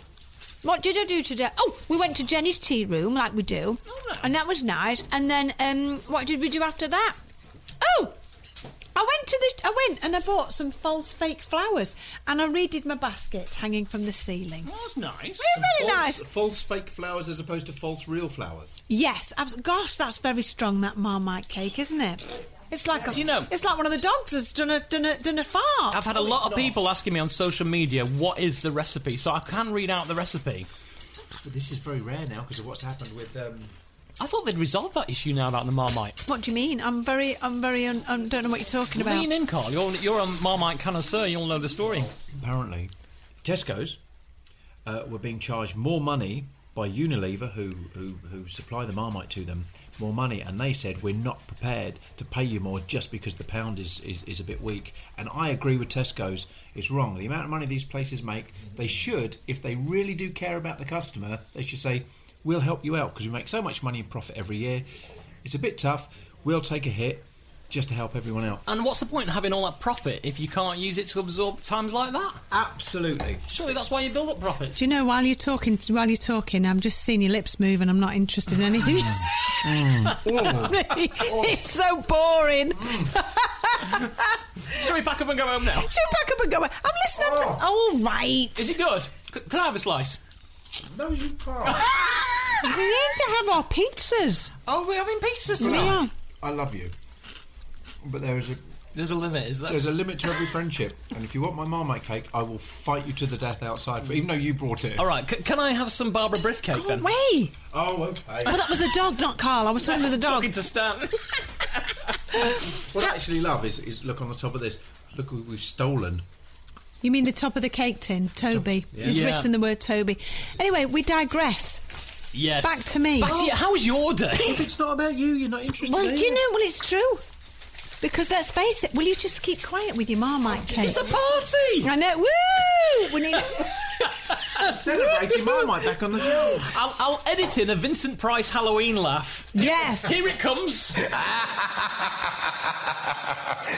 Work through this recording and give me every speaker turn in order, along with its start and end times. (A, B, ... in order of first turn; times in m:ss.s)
0:00.6-0:07.2 A
0:03.9-0:04.3 B
0:07.8-0:08.2 A
0:09.0-0:14.7 A
0:14.6-0:15.5 B
0:15.4-0:16.2 A
0:15.5-0:18.8 C
0:18.9-0:26.1 A
0:23.0-0:23.5 B
0:25.9-0:30.7 B
0:26.1-0:26.8 C
0:31.4-0:33.7 C
0:34.2-0:36.2 B
0:36.3-0:39.3 A
0:38.9-0:42.1 B
0:42.2-0:42.9 C
0:43.4-0:44.0 C
0:44.9-1:04.9 C
1:05.4-1:08.6 C
1:08.7-1:12.4 B
1:12.5-1:13.4 C
1:13.5-1:14.8 B
1:14.8-1:24.3 A
1:19.6-1:21.6 C
1:22.7-1:23.2 C
1:24.7-1:25.9 B
1:25.8-1:28.8 A
1:27.2-1:27.7 C
1:28.6-1:30.2 B
1:30.8-1:32.0 C
1:32.0-1:34.5 A
1:34.7-1:36.0 B
1:35.6-1:36.1 A
1:35.6-1:36.9 C
1:38.0-1:38.6 C
1:39.0-1:39.9 B
1:39.7-1:45.1 C
1:45.0-1:47.1 B
1:46.7-1:47.6 A
1:47.7-1:48.8 C
1:48.5-1:50.5 A
1:49.8-1:52.0 B
1:52.3-1:52.8 A
1:52.7-1:56.2 C
1:57.0-2:02.0 A
1:58.9-1:59.2 C
1:59.0-1:59.5 B
2:02.3-2:04.6 B
2:02.6-2:03.5 A
2:04.4-2:06.4 C
2:05.8-2:07.2 A
2:08.0-2:11.1 A
2:10.7-2:11.9 B
2:11.8-2:13.8 A
2:14.5-2:16.7 C
2:15.0-2:15.7 A
2:16.4-2:21.1 B
2:19.6-2:20.2 A